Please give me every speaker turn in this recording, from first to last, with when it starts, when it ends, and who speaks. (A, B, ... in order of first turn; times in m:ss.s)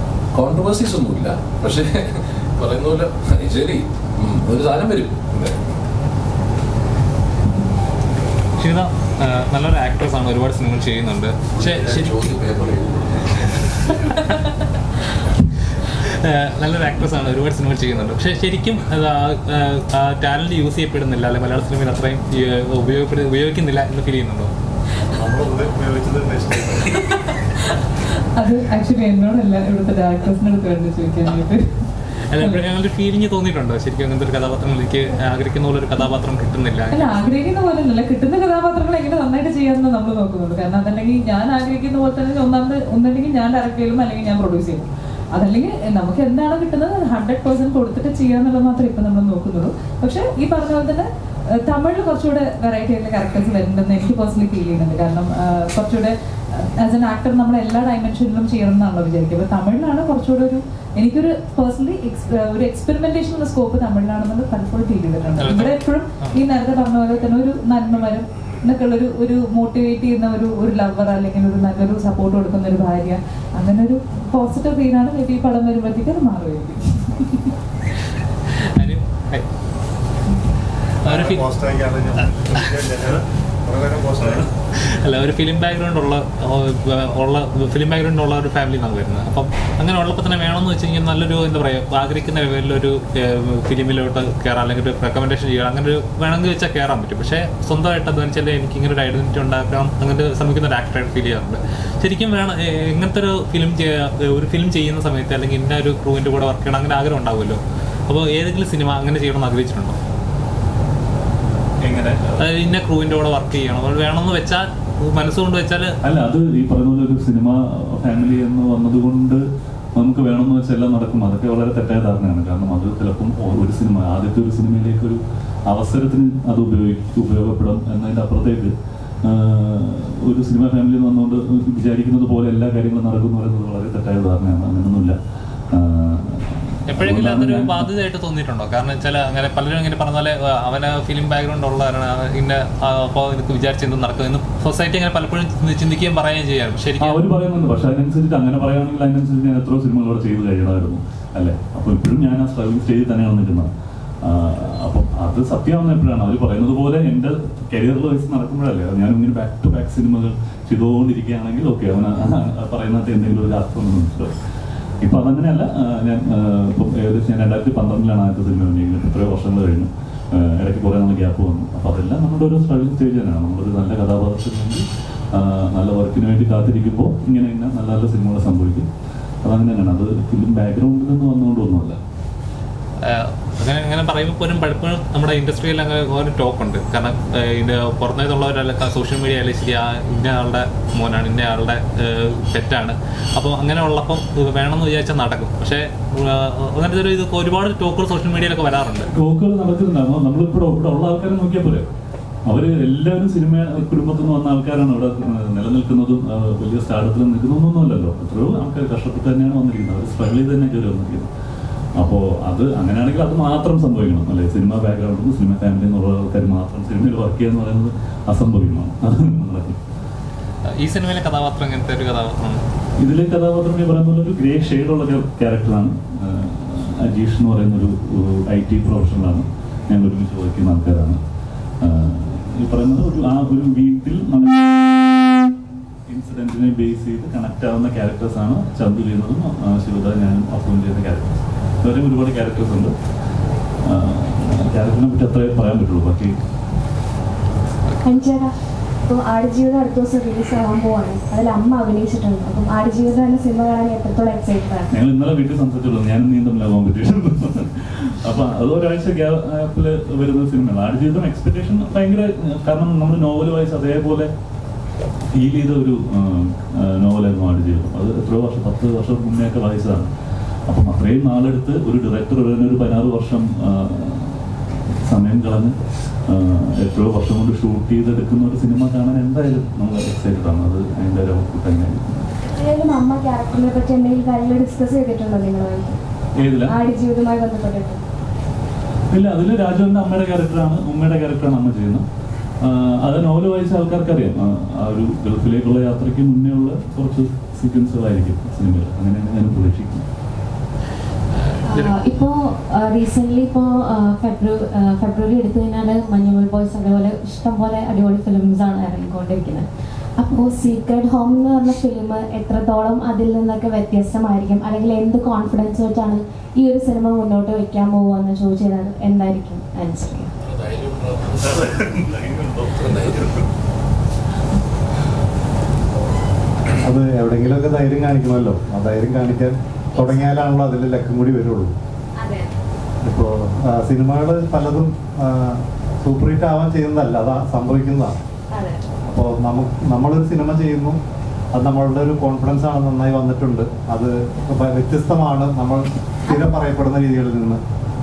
0:00.3-0:05.6 A
0:08.6-0:12.2 B
0:11.5-0:14.0 A
0:13.9-0:14.5 B
0:15.9-0:24.5 B
0:25.2-0:26.9 C
0:28.4-0:31.8 D
0:32.3-0:37.4 B
0:36.9-0:51.1 D
0:51.6-1:17.5 D
1:05.4-1:06.4 B
1:18.6-1:19.5 B
1:21.0-1:21.4 B
1:21.0-1:24.5 C
1:24.8-1:50.0 B
1:51.8-1:52.4 E
1:52.4-1:55.9 B
1:56.0-1:59.4 E
2:00.0-2:15.2 E
2:15.7-2:17.9 E
2:16.9-2:27.2 B
2:27.0-2:33.7 E
2:34.2-2:44.3 E
2:45.0-2:58.9 E
2:59.4-3:02.0 E
3:03.0-3:19.1 B
3:19.1-3:21.9 E
3:22.5-3:31.3 E
3:32.0-3:39.8 E
3:40.7-3:42.6 B
3:43.0-3:51.2 E
3:51.8-3:54.8 E
3:56.1-4:02.9 E
4:03.8-4:06.4 E
4:08.0-4:08.5 F
4:09.1-4:14.9 F
4:14.9-4:24.3 E
4:25.3-4:30.1 E
4:30.7-4:34.5 E
4:35.1-4:35.8 E
4:36.3-4:42.3 E
4:42.4-4:46.0 F
4:46.4-4:46.8 E
4:46.7-4:48.0 F
4:49.1-4:52.0 E
4:52.6-5:00.1 E
5:01.7-5:09.7 G
5:10.2-5:20.3 G
5:20.4-5:23.5 A
5:26.8-5:31.8 C
5:32.2-5:32.6 F
5:33.0-5:38.2 C
5:38.5-5:38.8 F
5:39.0-5:41.0 C
5:41.5-5:47.6 C